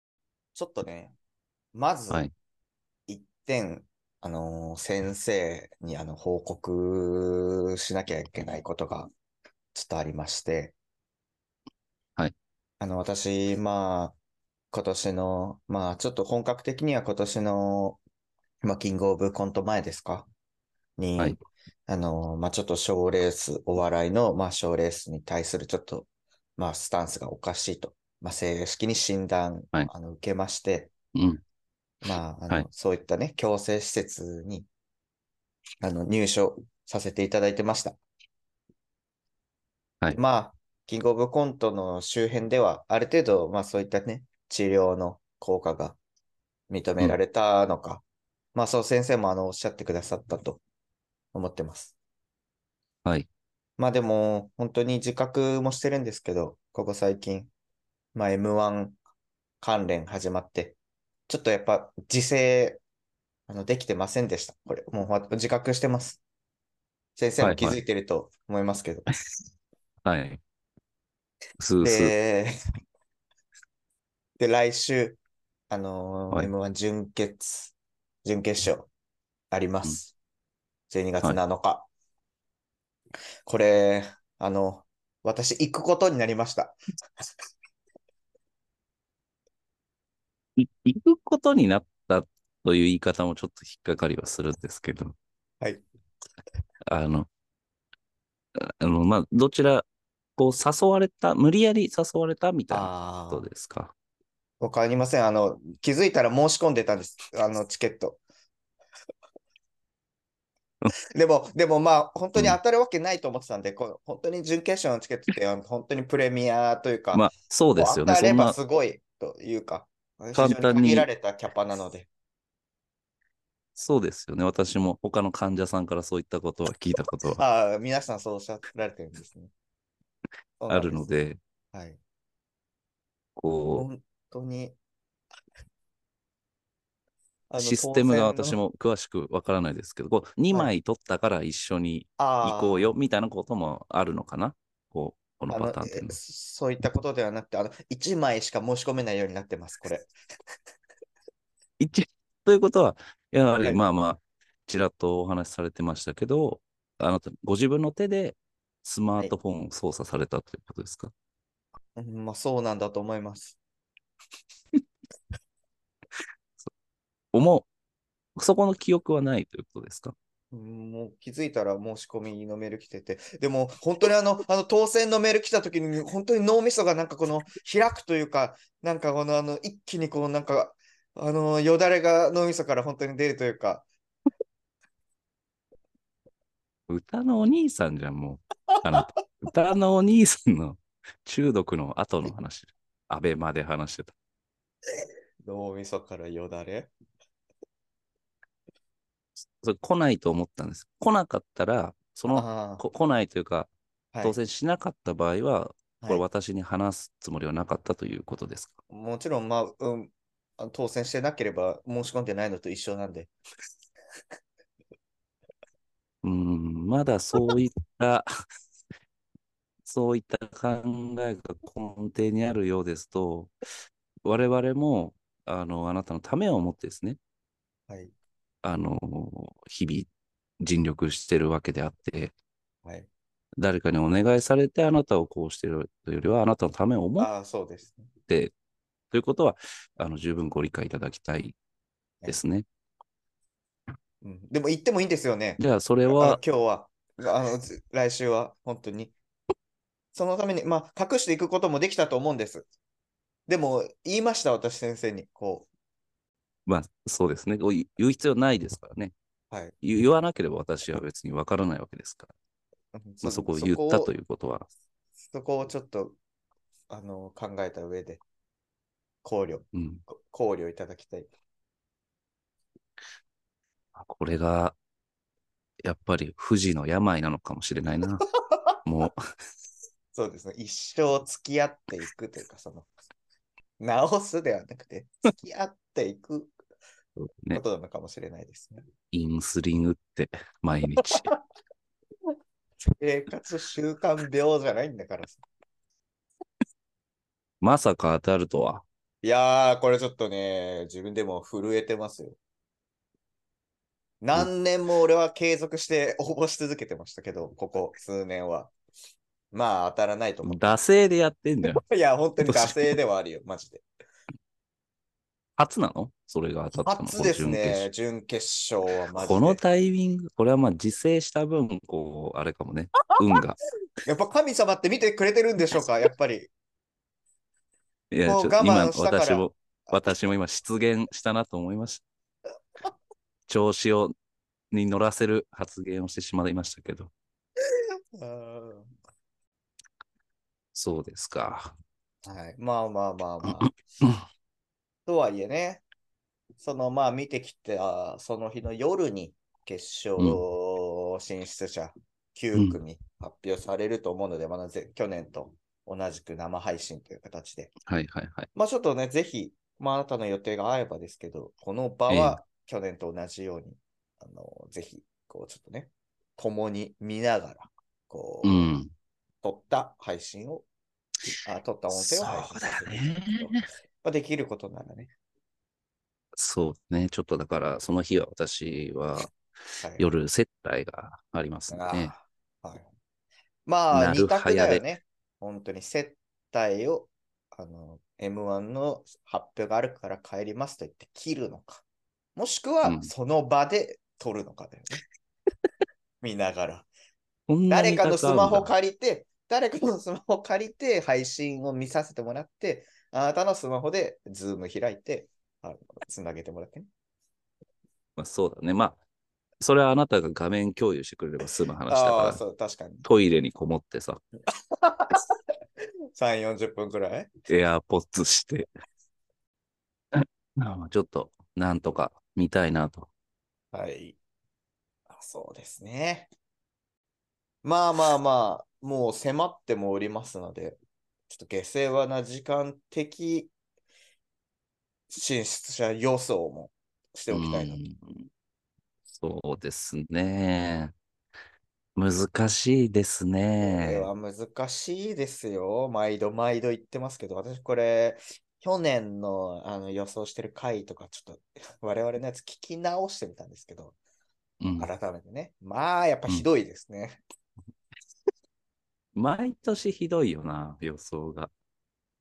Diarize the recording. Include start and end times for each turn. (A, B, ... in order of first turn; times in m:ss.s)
0:00.5-0:01.1 A
0:01.7-0:02.3 A
0:03.1-0:09.1 A
0:09.7-0:10.7 A
0:12.8-0:14.2 A
0:14.7-0:18.0 A
0:18.6-0:20.3 A
0:21.0-0:30.9 A
0:31.1-0:31.4 B
0:32.0-0:34.7 A
0:35.8-0:38.0 A
0:40.2-0:46.0 A
0:46.7-0:50.6 A
0:51.3-0:51.9 A
0:53.8-0:57.5 A
0:58.1-0:59.0 A
0:59.6-1:00.8 A
1:01.3-1:02.8 A
1:03.5-1:06.2 A
1:07.2-1:09.1 A
1:07.4-1:07.8 B
1:10.0-1:10.4 B
1:11.6-1:12.1 B
1:11.8-1:12.5 A
1:14.4-1:15.2 A
1:15.7-1:18.9 A
1:19.5-1:20.1 A
1:20.9-1:21.9 A
1:23.4-1:26.8 A
1:30.6-1:35.2 B
1:36.8-1:37.3 B
1:38.6-1:39.8 B
1:40.4-1:43.9 B
1:42.7-1:43.5 A
1:44.6-1:48.2 A
1:51.1-2:02.1 A
1:57.1-1:58.6 B
2:00.3-2:01.1 B
2:03.8-2:07.4 B
2:07.4-2:09.5 A
2:10.6-2:11.1 A
2:10.7-2:11.4 B
2:11.7-2:12.0 A
2:13.4-2:13.9 B
2:13.7-2:14.8 A
2:17.5-2:18.6 A
2:17.6-2:26.2 B
2:22.2-2:22.9 A
2:25.5-2:30.1 A
2:31.8-2:41.1 B
2:42.0-2:43.6 A
2:47.3-2:47.7 B
2:48.4-2:50.1 B
2:50.5-3:03.8 A
3:06.9-3:14.1 B
3:15.4-3:16.9 A
3:19.6-3:23.7 B
3:22.3-3:22.8 A
3:24.1-3:24.4 A
3:24.2-3:28.7 B
3:28.9-3:33.3 A
3:36.2-3:38.3 B
3:39.8-3:43.5 B
3:44.2-3:47.2 B
3:48.6-3:50.1 B
3:50.6-3:52.3 B
3:53.6-3:57.3 B
3:57.2-3:58.1 A
3:58.3-3:58.5 B
3:59.1-4:01.6 B
4:02.2-4:02.6 B
4:04.2-4:09.1 A
4:05.6-4:06.4 B
4:10.1-4:12.6 A
4:13.5-4:15.7 A
4:16.6-4:19.1 B
4:19.8-4:22.3 B
4:22.9-4:24.1 A
4:23.2-4:24.7 B
4:25.2-4:26.2 A
4:26.9-4:28.2 A
4:29.2-4:31.3 A
4:29.7-4:30.0 B
4:34.0-4:34.8 B
4:35.8-4:38.2 B
4:38.8-4:39.2 B
4:40.1-4:42.9 A
4:43.8-4:46.5 A
4:47.2-4:47.6 B
4:47.5-4:48.8 A
4:49.1-4:51.3 B
4:52.9-4:55.4 A
4:57.6-4:58.8 B
4:59.2-5:02.4 A
5:04.2-5:08.7 A
5:09.5-5:10.7 A
5:10.4-5:11.8 B
5:11.8-5:13.8 A
5:12.4-5:13.0 B
5:15.6-5:17.9 B
5:16.8-5:19.6 A
5:19.2-5:23.6 B
5:24.0-5:26.5 A
5:28.1-5:32.0 B
5:28.2-5:30.3 A
5:33.5-5:34.1 B
5:34.7-5:37.1 B
5:37.7-5:38.9 A
5:40.7-5:41.7 B
5:42.2-5:43.7 A
5:43.4-5:44.2 B
5:45.0-5:45.8 A
5:46.6-5:57.7 A
5:50.2-5:50.4 B
5:57.8-5:58.5 B
5:58.5-6:08.7 A
6:02.1-6:02.4 B
6:08.4-6:08.9 B
6:09.4-6:10.6 A
6:11.4-6:15.1 A
6:11.9-6:13.6 B
6:16.4-6:19.3 B
6:19.8-6:20.1 A
6:20.0-6:22.1 B
6:21.7-6:22.9 A
6:23.6-6:31.8 A
6:23.9-6:24.8 B
6:32.4-6:35.0 A
6:32.8-6:33.1 B
6:36.2-6:36.9 A
6:37.5-6:38.7 B
6:37.7-6:46.9 A
6:48.2-6:49.0 B
6:49.6-6:52.4 B
6:51.4-6:53.0 A
6:53.0-6:54.2 B
6:54.7-6:55.3 A
6:56.1-6:57.3 A
6:57.5-6:58.7 B
7:00.1-7:03.1 B
7:03.7-7:04.2 A
7:05.1-7:06.3 A
7:07.6-7:10.8 A
7:11.3-7:13.5 A
7:15.1-7:17.8 A
7:17.3-7:18.2 B
7:19.1-7:20.9 B
7:22.0-7:24.1 B
7:23.6-7:34.0 A
7:34.6-7:34.9 B
7:34.8-7:37.2 A
7:39.1-7:41.5 B